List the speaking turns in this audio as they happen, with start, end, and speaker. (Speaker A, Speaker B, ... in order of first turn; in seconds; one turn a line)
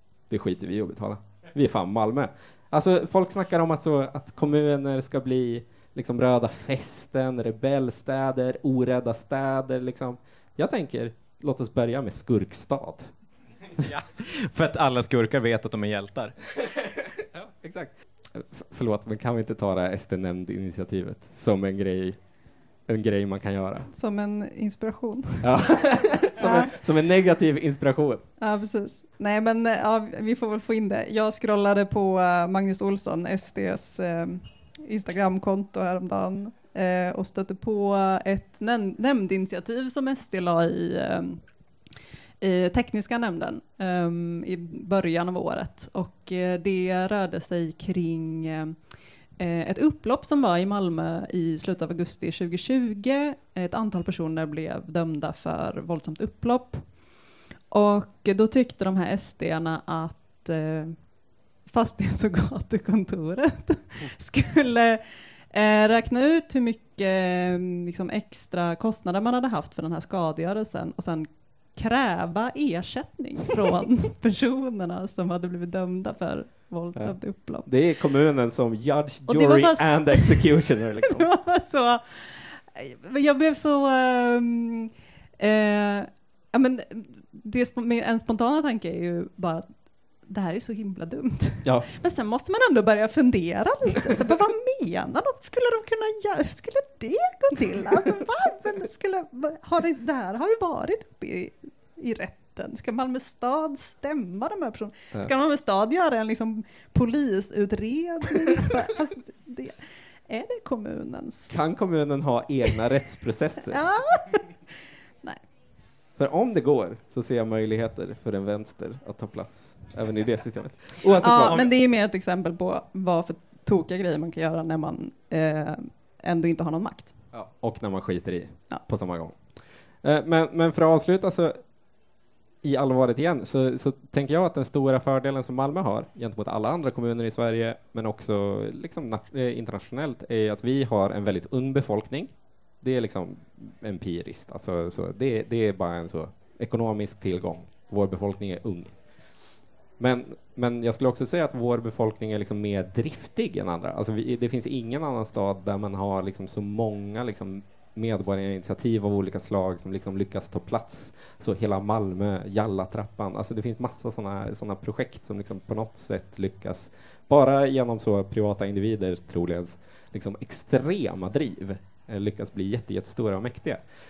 Speaker A: 0.3-13.1
Speaker B: 13.8-16.3
Speaker A: 17.3-22.2
Speaker A: 22.9-23.9
Speaker C: 23.9-25.5
Speaker A: 25.4-28.2
Speaker C: 26.4-26.7
Speaker C: 28.4-41.4
Speaker C: 42.4-48.8
Speaker C: 49.4-56.9
Speaker C: 57.7-61.1
Speaker C: 61.6-77.7
Speaker A: 76.9-81.3
Speaker C: 79.3-89.7
Speaker C: 90.2-111.6
Speaker A: 111.5-113.8
Speaker C: 113.7-114.6
Speaker A: 116.2-121.6
Speaker C: 121.2-127.1
Speaker A: 127.3-129.4
Speaker A: 130.0-131.6
Speaker A: 132.6-148.9
Speaker A: 150.0-173.8